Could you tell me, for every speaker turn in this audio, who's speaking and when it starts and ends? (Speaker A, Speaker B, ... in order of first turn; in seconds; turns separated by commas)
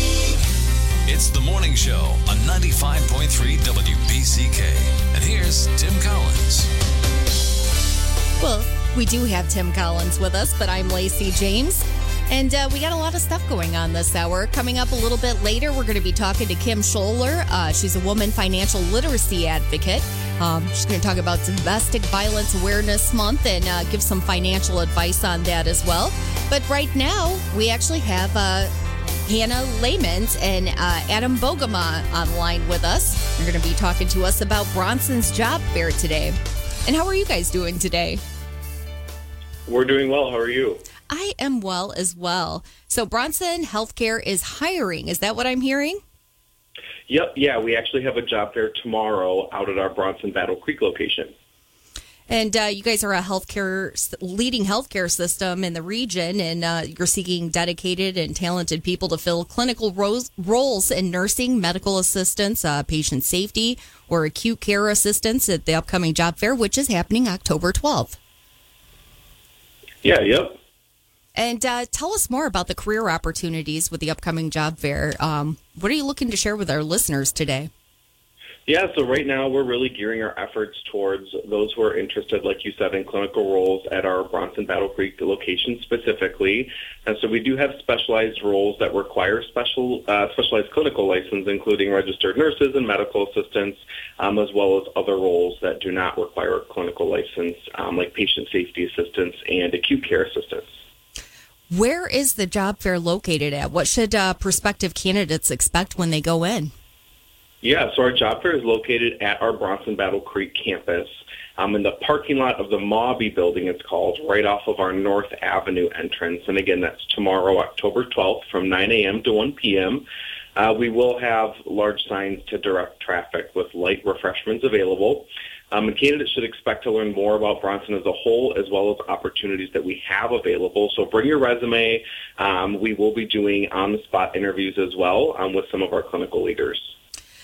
Speaker A: 1.0-6.7, Speaker B: 8.4-28.7, Speaker B: 29.2-38.2, Speaker C: 39.6-40.8, Speaker B: 41.1-46.0, Speaker C: 47.1-51.3, Speaker B: 52.3-68.2, Speaker C: 70.0-70.6, Speaker B: 71.3-77.7, Speaker C: 78.7-100.7, Speaker B: 101.7-106.7, Speaker C: 107.6-120.0, Speaker C: 120.5-136.9